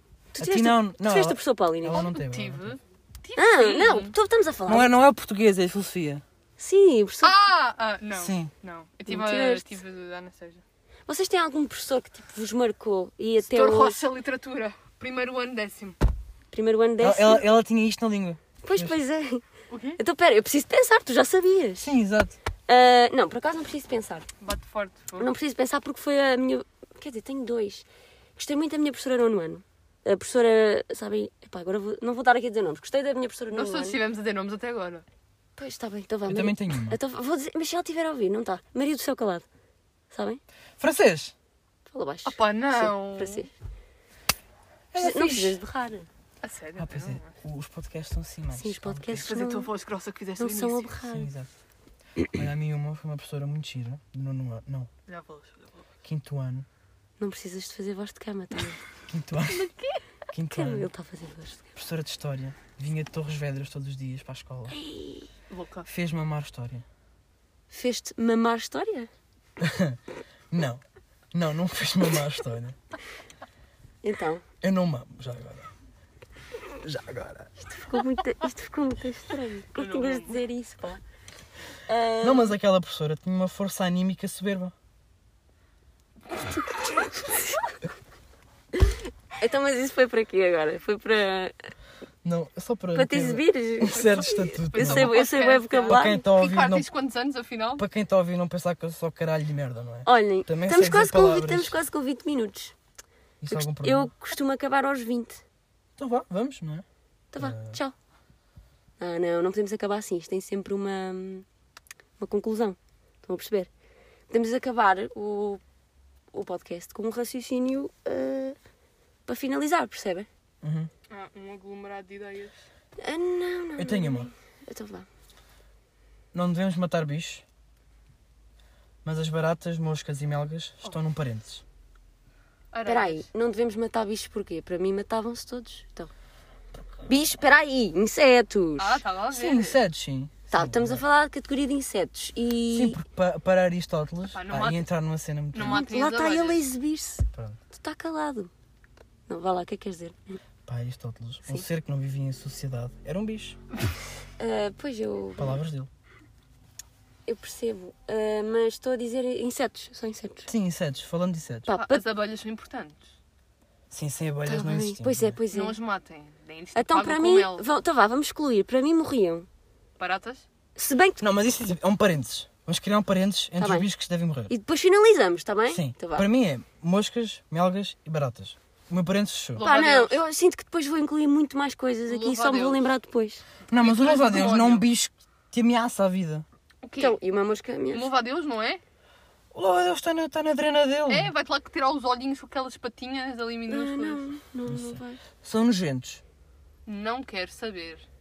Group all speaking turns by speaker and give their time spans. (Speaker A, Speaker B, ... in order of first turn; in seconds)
Speaker A: 0.3-2.1, 3.4-4.9, 6.6-7.4, 9.1-9.8, 11.1-14.0, 16.5-17.4, 18.6-19.4, 19.9-21.9, 22.7-24.3, 25.2-27.8, 28.4-34.0, 35.6-39.5, 40.1-40.4, 41.9-43.5, 45.0-46.1, 48.5-49.7, 50.4-51.3, 57.2-58.8, 60.5-61.8, 64.7-65.3, 67.7-69.1, 74.0-74.4, 77.6-81.0, 81.9-82.5, 87.3-87.6, 88.7-91.5, 92.9-96.2, 100.0-102.7, 103.5-105.4, 107.3-107.9, 109.0-111.5, 112.2-113.7, 114.3-115.6, 116.3-118.6, 119.3-120.3, 123.0-125.1, 132.8-136.1, 137.0-139.0, 140.5-143.0, 145.6-148.5, 149.3-150.4, 154.4-155.6, 157.3-160.5, 161.7-162.0, 164.4-165.8, 166.7-169.5, 170.8-171.2, 173.6-173.9, 174.5-176.3, 179.6-183.4, 187.0-188.1, 193.7-195.2
Speaker B: 0.4-2.8, 4.7-6.2, 8.2-8.5, 17.0-18.9, 21.8-22.4, 36.2-37.0, 40.8-41.3, 44.9-45.6, 46.8-49.3, 51.1-51.5, 52.3-54.9, 56.0-56.6, 59.1-59.7, 60.3-60.9, 61.8-64.8, 65.8-66.8, 69.6-70.0, 70.5-72.8, 74.6-75.7, 76.8-77.5, 82.2-84.7, 92.2-95.2, 95.8-96.9, 97.8-101.7, 103.4-104.1, 106.0-106.8, 107.4-107.8, 120.6-120.9, 123.8-124.3, 126.3-127.4, 129.0-131.6, 139.3-141.0, 142.7-145.8, 147.3-147.6, 150.7-153.6, 155.4-155.9, 160.5-161.7, 163.9-165.4, 171.2-174.5, 175.7-179.6, 183.7-186.4, 189.5-191.3, 194.7-196.2
Speaker C: 1.9-4.1, 7.2-10.6, 13.4-16.0, 19.7-20.0, 24.4-25.3, 33.5-35.0, 42.2-43.5, 46.4-47.4, 49.1-51.0, 55.1-55.9, 59.4-60.0, 65.5-65.9, 79.7-80.4, 94.7-97.8, 121.1-122.5, 132.7-133.3, 138.8-139.8, 144.3-144.9, 145.5-146.6, 161.7-163.1, 165.5-167.6, 170.0-170.4, 179.6-180.2, 182.1-182.8, 183.7-184.9, 186.8-187.2, 187.9-188.8, 191.1-194.2, 196.8-198.1